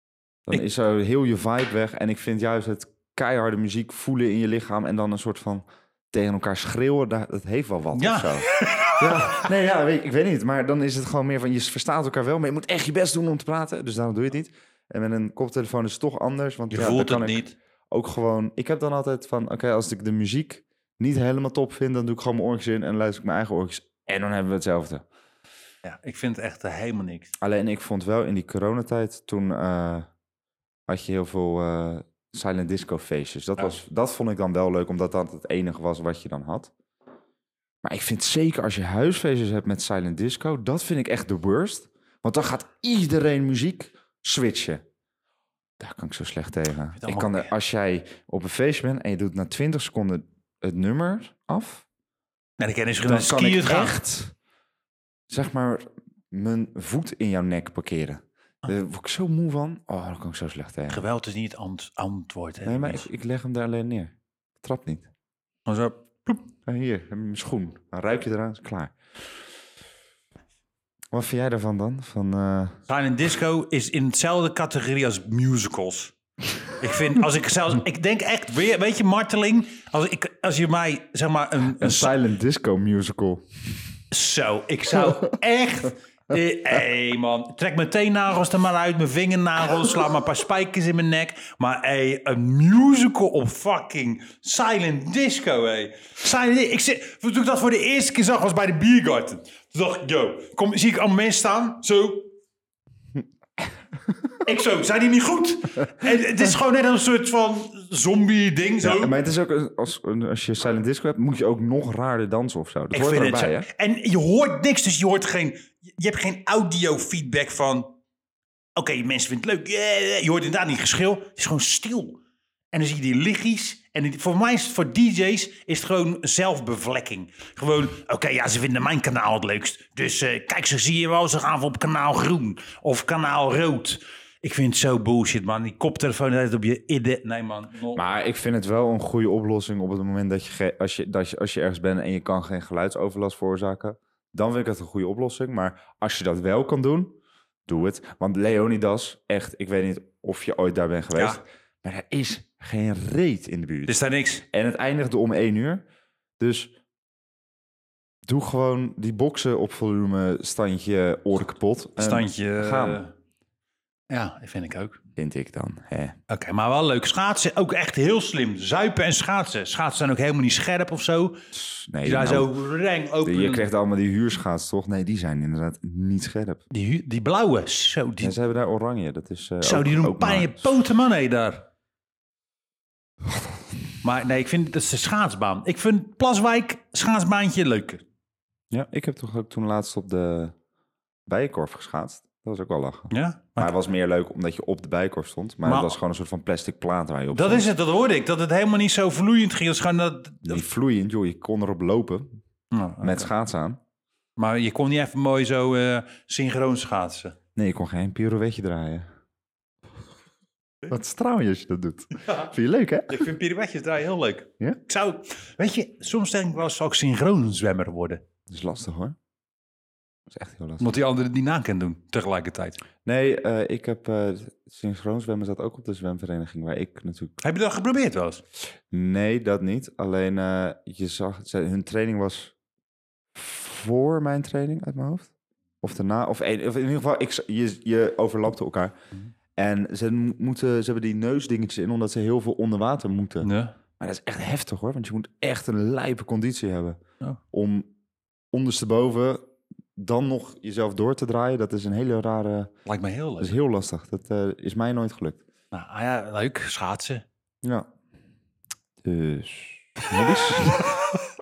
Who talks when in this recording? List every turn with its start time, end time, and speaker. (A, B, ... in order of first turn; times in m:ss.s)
0:00.5-0:25.0 A
0:07.9-0:09.5 B
0:16.7-0:17.6 B
0:25.8-0:27.3 B
0:27.4-0:30.1 A
0:30.9-0:36.7 A
0:37.8-0:44.8 A
0:45.8-0:51.8 A
0:47.0-0:47.5 B
0:52.6-0:54.0 B
0:53.0-0:54.4 A
0:55.3-1:01.0 A
1:00.9-1:03.1 B
1:02.6-1:05.1 A
1:05.7-1:06.4 B
1:06.7-1:08.9 A
1:11.1-1:12.8 A
1:12.9-1:16.2 B
1:16.8-1:22.2 B
1:21.8-1:23.4 A
1:24.1-1:42.3 B
1:44.4-1:49.1 B
1:48.8-1:53.7 A
1:52.9-1:57.9 B
1:58.8-2:02.2 B
2:02.7-2:18.0 B
2:18.0-2:34.0 A
2:31.2-2:31.4 B
2:33.9-2:34.4 B
2:34.5-2:35.8 A
2:36.4-2:36.7 A
2:38.3-2:43.0 A
2:42.0-2:43.1 B
2:44.1-2:45.0 B
2:45.2-2:46.2 A
2:46.3-2:51.4 B
2:51.5-2:52.5 A
2:52.0-2:53.7 B
2:53.2-2:56.6 A
2:56.7-2:58.4 B
2:58.2-3:00.8 A
2:59.6-3:01.7 B
3:04.0-3:08.0 B
3:08.7-3:10.6 A
3:11.3-3:17.7 A
3:13.1-3:13.7 B
3:15.6-3:16.0 B
3:17.3-3:20.6 B
3:20.4-3:22.4 A
3:22.7-3:23.3 B
3:23.0-3:23.8 A
3:24.4-3:27.4 B
3:27.6-3:29.0 A
3:30.9-3:33.3 A
3:32.2-3:32.5 B
3:33.1-3:38.2 B
3:38.5-3:39.2 A
3:40.3-3:40.9 A
3:40.8-3:42.8 B
3:43.0-3:47.4 A
3:47.4-3:48.4 B
3:48.9-3:52.5 A
3:53.3-3:55.3 A
3:55.8-3:58.9 A
3:59.6-4:07.0 A
4:03.4-4:03.8 B
4:07.5-4:07.9 A
4:08.5-4:12.7 A
4:12.9-4:13.6 B
4:13.4-4:15.4 A
4:15.7-4:17.2 B
4:19.0-4:21.0 A
4:20.2-4:21.0 B